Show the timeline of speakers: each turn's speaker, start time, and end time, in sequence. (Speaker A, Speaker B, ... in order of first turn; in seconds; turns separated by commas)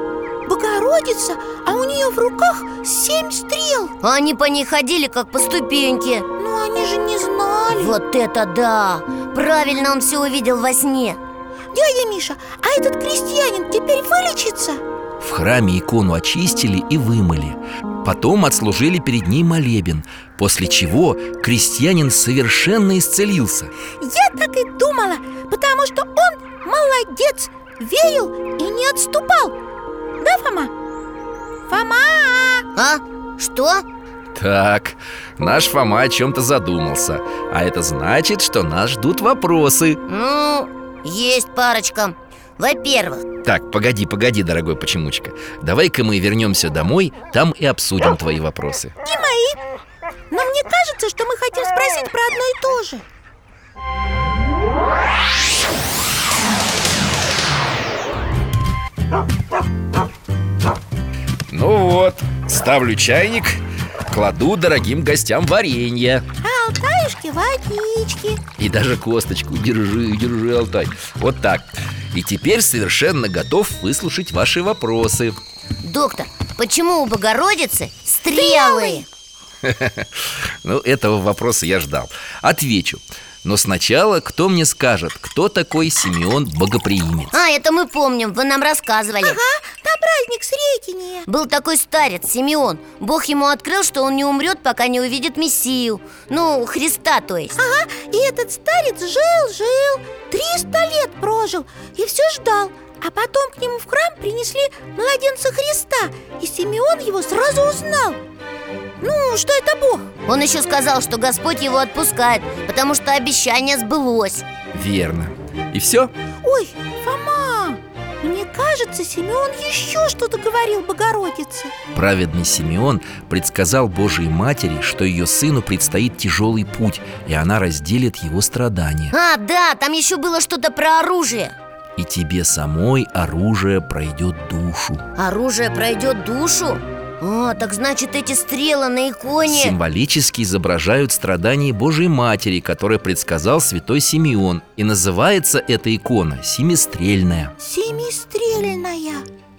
Speaker A: 0.5-3.9, Speaker B: 4.0-6.2, Speaker A: 6.4-7.9, Speaker B: 7.7-11.2, Speaker A: 11.7-14.8, Speaker C: 15.2-23.7, Speaker A: 24.0-29.6, Speaker A: 30.2-30.7, Speaker A: 31.7-32.6, Speaker B: 32.8-33.8, Speaker C: 34.3-40.0, Speaker B: 40.1-43.2, Speaker C: 43.4-48.9, Speaker A: 49.0-49.6, Speaker A: 50.3-53.0, Speaker C: 61.5-66.2, Speaker A: 66.4-68.4, Speaker C: 68.6-75.4, Speaker B: 75.8-79.0, Speaker A: 78.3-79.0, Speaker C: 79.6-87.3, Speaker B: 87.3-89.4, Speaker A: 89.2-91.3, Speaker B: 91.3-97.6, Speaker A: 97.6-108.2, Speaker A: 109.0-110.1, Speaker B: 110.2-114.4, Speaker C: 114.7-116.1, Speaker A: 116.4-121.7, Speaker C: 121.9-129.1, Speaker B: 129.1-131.5, Speaker C: 131.9-135.0, Speaker B: 135.2-139.8, Speaker C: 139.4-147.5, Speaker A: 147.6-149.2